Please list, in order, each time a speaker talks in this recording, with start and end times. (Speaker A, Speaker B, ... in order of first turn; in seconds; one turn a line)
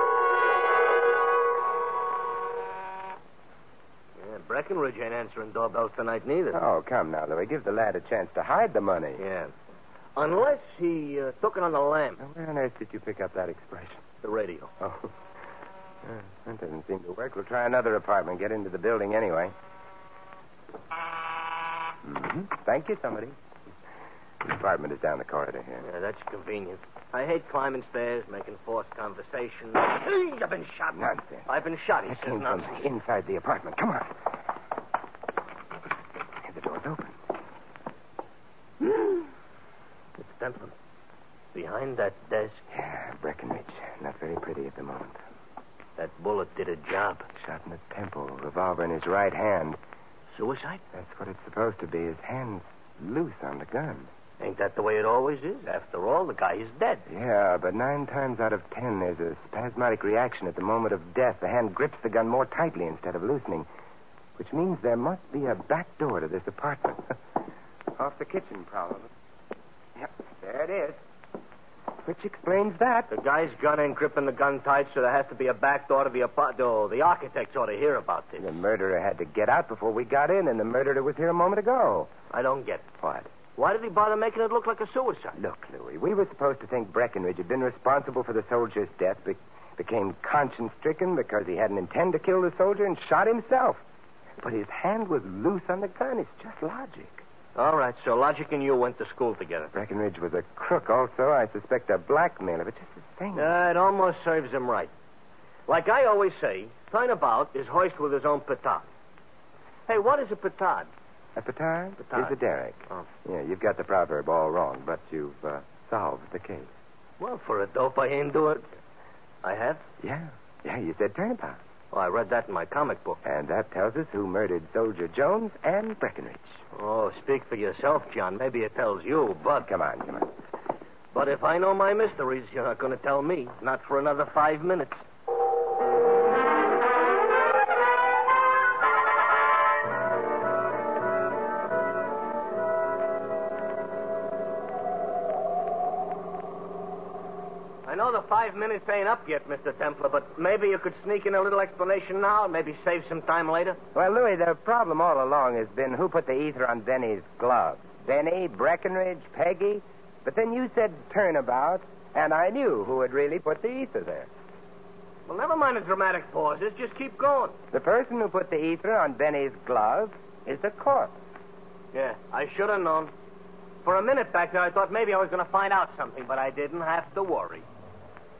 Speaker A: 4.2-6.6
Speaker B: 6.5-9.2
Speaker A: 9.2-9.5
Speaker A: 10.2-12.2
Speaker B: 12.2-14.0
Speaker A: 14.2-14.7
Speaker B: 14.8-15.1
Speaker B: 16.0-19.5
Speaker B: 22.0-23.4
Speaker B: 24.4-25.8
Speaker A: 25.8-32.9
Speaker B: 30.9-31.5
Speaker B: 32.0-34.2
Speaker B: 36.4-37.2
Speaker A: 40.2-40.7
Speaker A: 41.5-42.6
Speaker B: 42.7-45.2
Speaker A: 46.0-47.3
Speaker B: 47.4-49.8
Speaker A: 50.3-50.8
Speaker B: 50.9-54.1
Speaker A: 54.4-57.0
Speaker B: 57.1-63.7
Speaker B: 64.4-67.2
Speaker B: 68.0-69.1
Speaker B: 70.0-71.0
Speaker B: 72.0-73.1
Speaker A: 73.1-78.6
Speaker B: 78.4-82.1
Speaker A: 82.3-82.8
Speaker B: 83.0-83.3
Speaker A: 83.6-85.4
Speaker B: 85.3-93.8
Speaker B: 94.4-97.2
Speaker A: 97.5-99.7
Speaker B: 99.7-103.5
Speaker A: 103.3-104.9
Speaker A: 105.7-108.8
Speaker A: 109.9-110.9
Speaker B: 111.3-116.7
Speaker A: 112.0-112.3
Speaker A: 117.2-118.7
Speaker A: 119.4-119.8
Speaker B: 120.0-121.6
Speaker A: 121.9-123.2
Speaker B: 123.2-126.6
Speaker A: 126.7-129.7
Speaker B: 129.6-130.3
Speaker A: 131.1-135.0
Speaker A: 147.8-153.8
Speaker B: 153.9-164.3
Speaker A: 165.3-167.5
Speaker B: 167.7-171.2
Speaker A: 171.9-173.1
Speaker A: 173.8-177.7